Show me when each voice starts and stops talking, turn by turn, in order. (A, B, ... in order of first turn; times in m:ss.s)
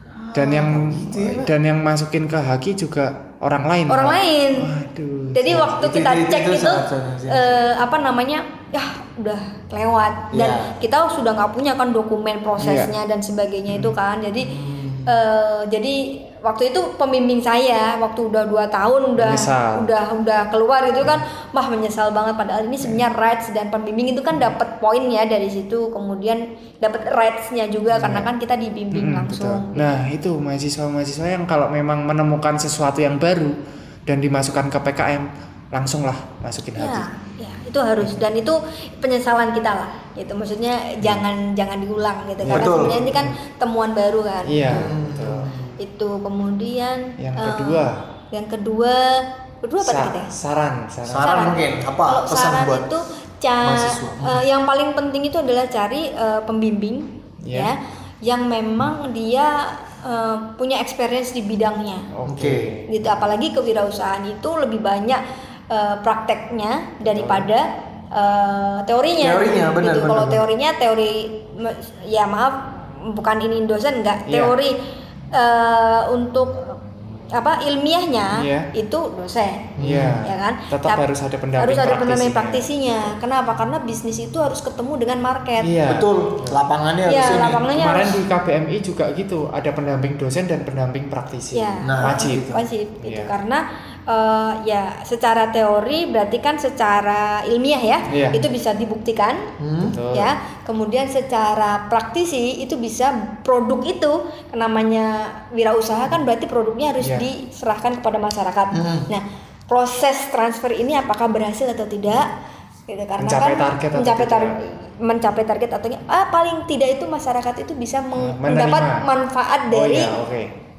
0:00.1-0:01.5 A
0:00.3-0:05.8 B
0:03.9-0:04.7 C
0:05.3-0:14.5 C
0:05.6-0:07.6 A
0:10.3-0:10.7 A
0:12.6-0:12.9 B
0:14.4-0:15.2 A
0:15.0-0:29.9 C
0:19.2-0:19.9 B
0:27.9-0:28.3 B
0:28.9-0:37.1 B
0:36.8-0:44.9 C
0:42.4-0:43.0 A
0:42.4-0:43.4 B
0:44.5-0:45.7 B
0:44.6-0:45.8 A
0:45.8-0:50.4 C
0:47.2-0:47.9 B
0:49.8-0:51.6 B
0:51.0-0:52.9 A
0:51.2-1:02.1 C
0:53.6-0:54.4 A
0:57.4-0:57.7 B
1:02.1-1:02.9 B
1:02.3-1:02.7 A
1:02.9-1:14.8 C
1:07.1-1:07.5 B
1:09.2-1:10.4 A
1:14.3-1:14.5 B
1:15.3-1:16.8 C
1:17.3-1:21.0 C
1:18.3-1:18.7 B
1:19.8-1:20.2 A
1:19.8-1:23.1 B
1:21.6-1:25.7 C
1:25.6-1:26.6 B
1:25.8-1:27.7 A
1:27.0-1:28.2 C
1:27.7-1:33.3 B
1:31.5-1:39.5 C
1:31.8-1:32.6 A
1:38.1-1:38.5 B
1:39.6-1:40.0 A
1:39.8-1:40.3 B
1:40.1-1:52.3 C
1:48.7-1:49.1 A
1:52.9-2:00.2 C
1:53.2-1:54.5 B
1:58.2-1:59.1 B
1:59.7-2:00.5 B